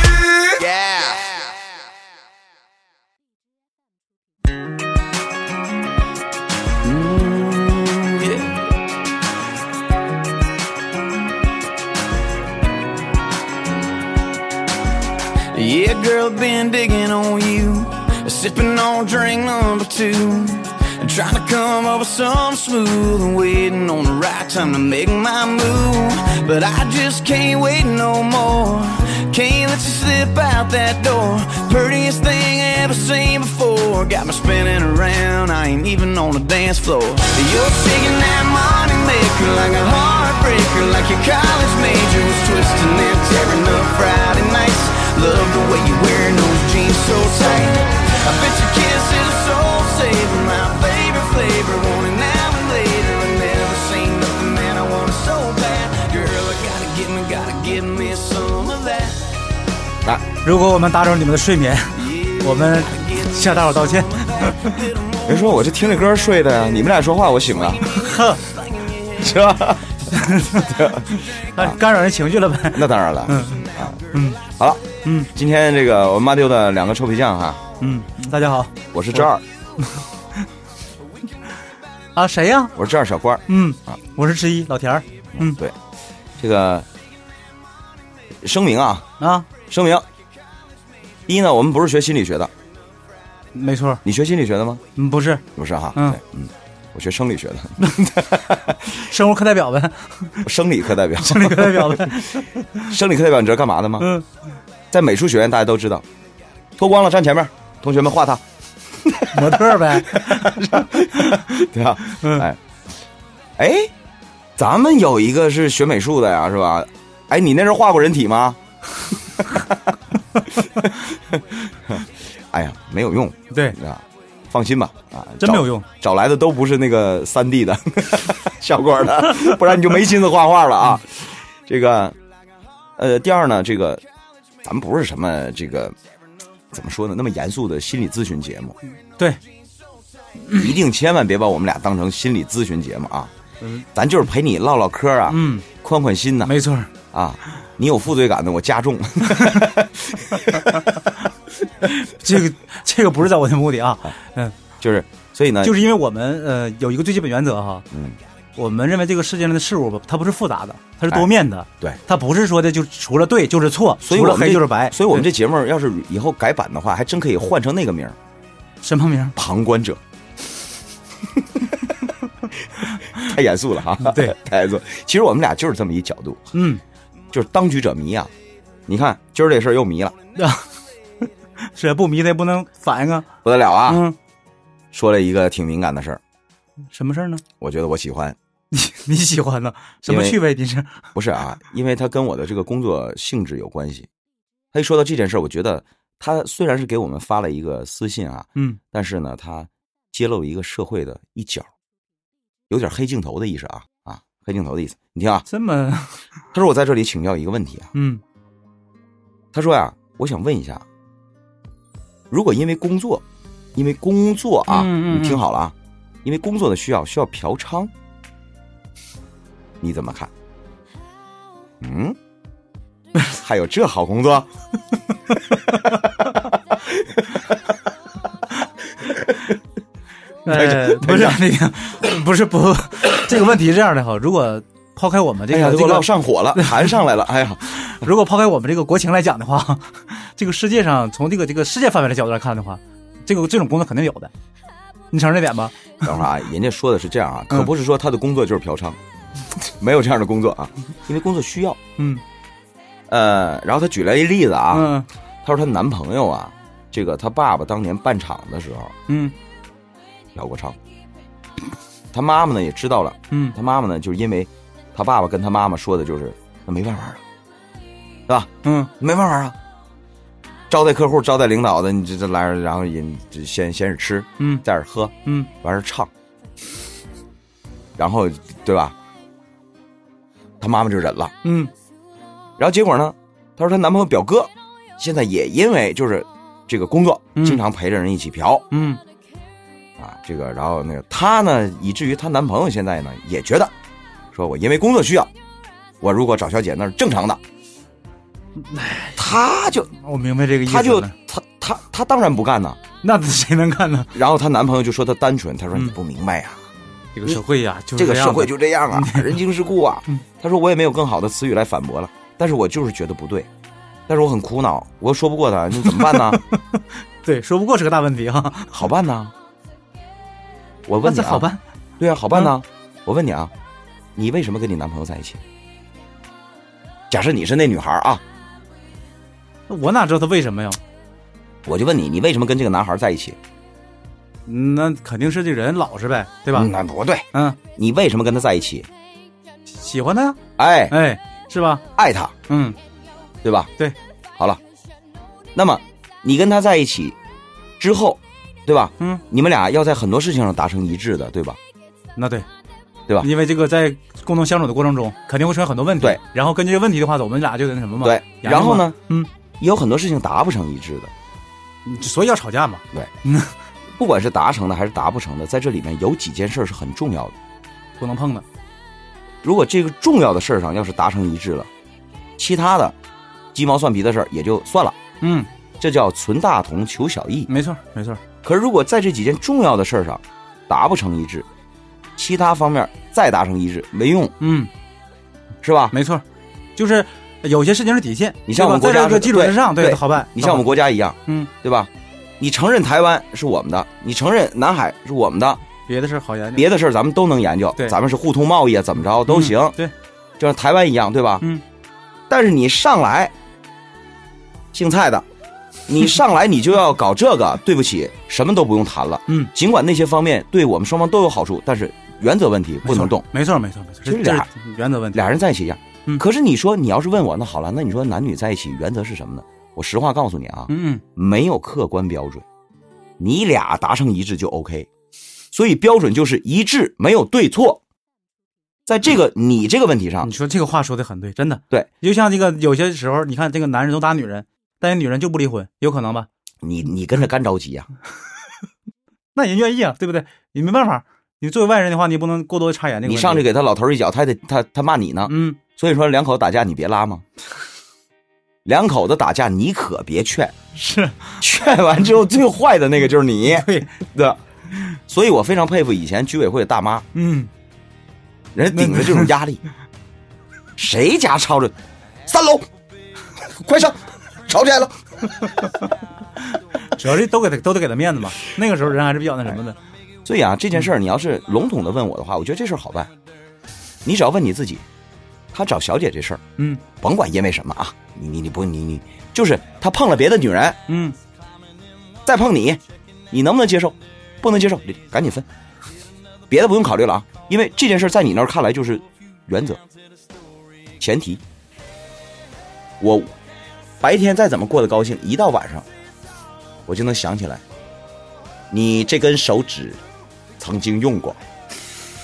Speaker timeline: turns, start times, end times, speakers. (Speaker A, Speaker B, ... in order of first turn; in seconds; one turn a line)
Speaker A: 0.6-1.5
Speaker A: 6.8-8.5
Speaker A: 15.5-59.3
Speaker B: 60.4-64.8
Speaker A: 62.0-65.5
Speaker C: 65.3-67.9
Speaker A: 67.6-69.3
Speaker B: 67.8-68.4
Speaker C: 69.2-71.8
Speaker B: 70.1-74.4
Speaker C: 72.7-74.0
Speaker C: 74.5-77.6
Speaker B: 75.0-75.3
Speaker B: 77.8-79.2
Speaker C: 78.9-79.4
Speaker B: 79.8-80.0
Speaker B: 82.2-82.7
Speaker C: 82.8-84.0
Speaker B: 83.5-85.6
Speaker C: 85.4-85.8
Speaker C: 86.4-86.9
Speaker C: 88.4-89.1
Speaker B: 89.2-89.5
Speaker C: 89.7-90.1
Speaker C: 91.3-92.5
Speaker B: 93.5-94.0
Speaker C: 94.0-94.8
Speaker B: 95.0-96.2
Speaker C: 95.5-98.9
Speaker B: 98.8-100.5
Speaker C: 100.4-104.1
Speaker B: 101.2-102.9
Speaker B: 104.0-104.3
Speaker C: 104.9-106.0
Speaker C: 106.8-112.6
Speaker B: 109.3-112.5
Speaker C: 113.6-113.9
Speaker C: 114.6-118.6
Speaker C: 119.5-119.8
Speaker C: 120.6-132.2
Speaker B: 123.5-123.8
Speaker B: 125.4-125.9
Speaker C: 133.0-134.0
Speaker C: 134.6-136.0
Speaker C: 136.7-138.8
Speaker C: 140.5-143.3
Speaker C: 143.9-146.5
Speaker B: 145.3-145.7
Speaker B: 146.4-146.9
Speaker C: 147.1-151.0
Speaker B: 149.3-149.7
Speaker B: 151.8-154.6
Speaker C: 154.8-155.8
Speaker B: 155.6-157.9
Speaker C: 157.9-158.2
Speaker B: 158.6-165.3
Speaker C: 164.0-168.2
Speaker B: 168.8-169.4
Speaker C: 169.4-170.0
Speaker C: 171.4-171.7
Speaker C: 172.8-176.5
Speaker B: 174.0-174.4
Speaker B: 176.5-176.8
Speaker C: 177.3-178.3
Speaker C: 178.9-180.2
Speaker B: 180.4-180.7
Speaker B: 181.6-183.3
Speaker C: 183.4-184.1
Speaker B: 183.9-184.2
Speaker C: 184.9-186.2
Speaker B: 186.9-187.4
Speaker C: 187.6-188.4
Speaker B: 188.7-191.1
Speaker C: 190.1-190.4
Speaker C: 191.1-194.1
Speaker C: 194.7-201.7
Speaker C: 202.7-205.4
Speaker B: 205.5-206.2
Speaker C: 206.5-207.9
Speaker B: 207.9-208.2
Speaker C: 209.5-210.9
Speaker C: 212.3-213.2
Speaker C: 213.8-217.9
Speaker B: 214.7-215.4
Speaker C: 219.8-220.3
Speaker C: 221.8-222.2
Speaker C: 223.3-224.5
Speaker C: 226.9-227.2
Speaker C: 229.1-229.4
Speaker B: 230.5-236.9
Speaker C: 230.5-231.4
Speaker C: 235.5-237.7
Speaker B: 237.7-244.3
Speaker B: 245.1-245.9
Speaker C: 246.0-249.0
Speaker C: 249.5-251.8
Speaker C: 253.1-254.9
Speaker B: 254.7-255.1
Speaker C: 255.4-258.9
Speaker B: 259.1-259.4
Speaker C: 260.3-260.8
Speaker C: 262.1-267.2
Speaker B: 263.3-263.6
Speaker C: 268.3-269.6
Speaker B: 268.6-268.9
Speaker C: 270.7-276.1
Speaker B: 275.2-275.5
Speaker C: 278.0-279.0
Speaker C: 280.6-281.4
Speaker B: 281.4-281.7
Speaker C: 282.6-288.7
Speaker B: 287.4-287.6
Speaker B: 288.7-289.0
Speaker C: 290.0-293.7
Speaker C: 294.3-295.3
Speaker C: 296.0-297.4
Speaker B: 298.6-299.4
Speaker C: 299.2-299.9
Speaker B: 299.9-301.1
Speaker C: 300.7-302.8
Speaker B: 303.0-304.1
Speaker C: 304.1-306.6
Speaker B: 307.1-309.4
Speaker C: 307.9-313.5
Speaker C: 314.1-316.4
Speaker B: 315.8-318.7
Speaker C: 318.7-319.3
Speaker C: 320.9-321.5
Speaker B: 321.0-321.6
Speaker C: 322.0-323.5
Speaker C: 324.1-325.4
Speaker C: 327.1-328.2
Speaker B: 329.7-330.8
Speaker C: 331.6-333.4
Speaker B: 334.5-336.7
Speaker C: 336.5-338.9
Speaker B: 337.3-337.6
Speaker B: 339.7-341.8
Speaker C: 340.6-341.0
Speaker C: 341.9-342.3
Speaker B: 342.5-342.8
Speaker C: 343.4-343.7
Speaker C: 345.5-347.2
Speaker C: 347.8-351.6
Speaker B: 352.2-352.5
Speaker B: 353.2-359.3
Speaker C: 358.0-359.0
Speaker C: 359.6-361.1
Speaker B: 361.9-363.5
Speaker C: 364.0-367.4
Speaker B: 368.0-368.4
Speaker C: 369.4-371.7
Speaker C: 372.4-373.0
Speaker C: 373.5-375.0
Speaker B: 375.2-375.5
Speaker C: 375.8-377.5
Speaker B: 377.5-378.2
Speaker C: 378.4-381.5
Speaker C: 382.2-384.4
Speaker B: 384.4-384.7
Speaker C: 385.6-385.9
Speaker B: 385.9-386.2
Speaker B: 386.8-390.7
Speaker C: 388.5-395.6
Speaker B: 391.3-391.5
Speaker B: 395.9-396.7
Speaker C: 396.6-399.8
Speaker B: 399.3-399.9
Speaker C: 400.4-401.5
Speaker C: 402.3-403.3
Speaker C: 404.7-405.3
Speaker C: 405.9-413.3
Speaker B: 412.9-415.2
Speaker C: 414.1-414.5
Speaker C: 415.1-422.4
Speaker B: 420.7-421.0
Speaker C: 423.2-424.9
Speaker C: 425.5-427.8
Speaker C: 428.9-430.3
Speaker B: 430.2-436.3
Speaker C: 436.6-437.9
Speaker B: 439.3-443.5
Speaker C: 443.1-447.2
Speaker B: 445.3-445.6
Speaker C: 448.6-450.6
Speaker B: 450.8-451.4
Speaker C: 451.4-457.1
Speaker B: 453.5-454.0
Speaker B: 457.1-457.5
Speaker C: 458.5-459.6
Speaker B: 458.7-459.3
Speaker C: 460.8-462.7
Speaker C: 463.4-465.4
Speaker B: 466.9-469.8
Speaker C: 470.2-473.1
Speaker C: 474.0-474.9
Speaker C: 475.5-480.8
Speaker B: 476.6-476.8
Speaker B: 480.9-481.2
Speaker C: 482.2-485.5
Speaker C: 486.5-489.8
Speaker C: 491.0-491.4
Speaker C: 493.0-493.4
Speaker C: 494.0-495.9
Speaker C: 496.9-497.6
Speaker C: 498.7-500.0
Speaker C: 500.6-501.4